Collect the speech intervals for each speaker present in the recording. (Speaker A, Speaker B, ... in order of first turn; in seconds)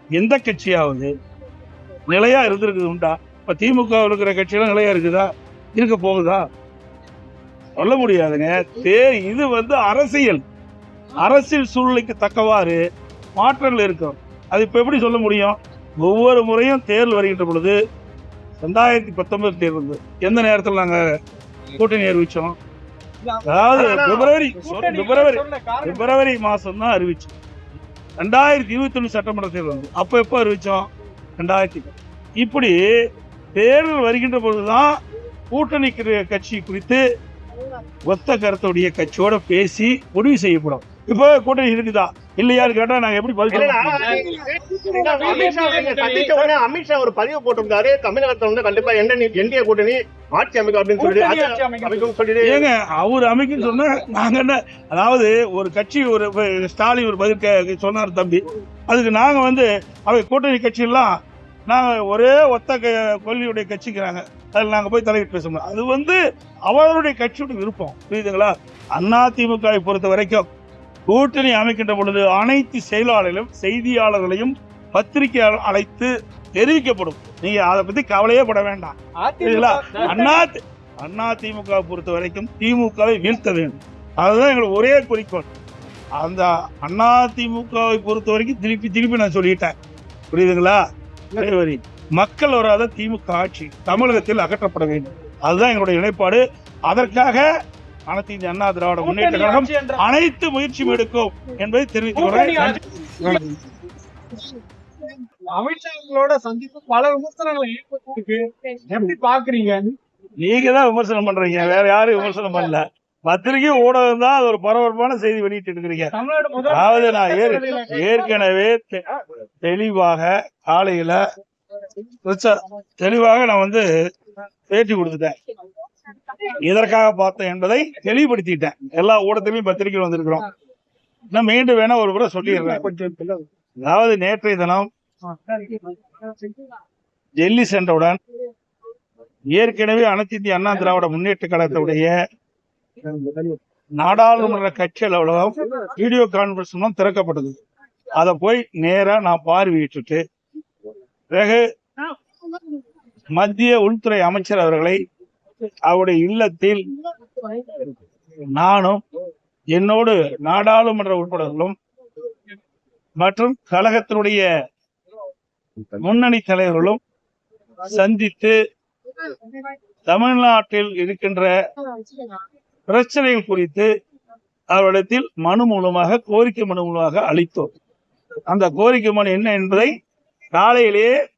Speaker A: 0.1-1.1, 2.1-6.5, 7.8-10.4, 11.2-12.8, 13.4-17.7, 18.6-21.0, 21.8-22.6, 23.5-27.3, 28.2-32.8, 33.5-35.0, 35.5-37.0, 38.1-44.0, 52.4-61.1, 61.7-70.5, 71.1-85.5, 86.2-89.7, 90.3-90.8, 91.3-97.5, 98.1-103.4, 110.4-116.1, 116.7-119.0, 119.6-121.2, 122.2-123.8, 124.7-125.3, 126.6-130.4, 131.3-132.9, 133.8-134.9, 137.4-138.2, 139.5-142.1, 144.0-147.6, 148.2-150.2, 151.3-151.6, 153.3-155.0, 155.9-156.8, 158.6-159.0, 159.7-161.7, 163.2-164.4, 166.0-167.0, 167.8-168.5, 170.1-171.5, 172.9-173.9, 174.7-177.7, 178.5-180.0, 180.5-181.1
Speaker B: 23.2-23.9, 24.6-26.1, 43.5-44.2, 44.9-46.5, 51.0-52.1, 79.2-80.4, 99.0-100.0, 102.1-102.8, 105.5-109.8, 116.1-118.2, 135.5-135.8
Speaker C: 23.7-24.3, 43.5-52.6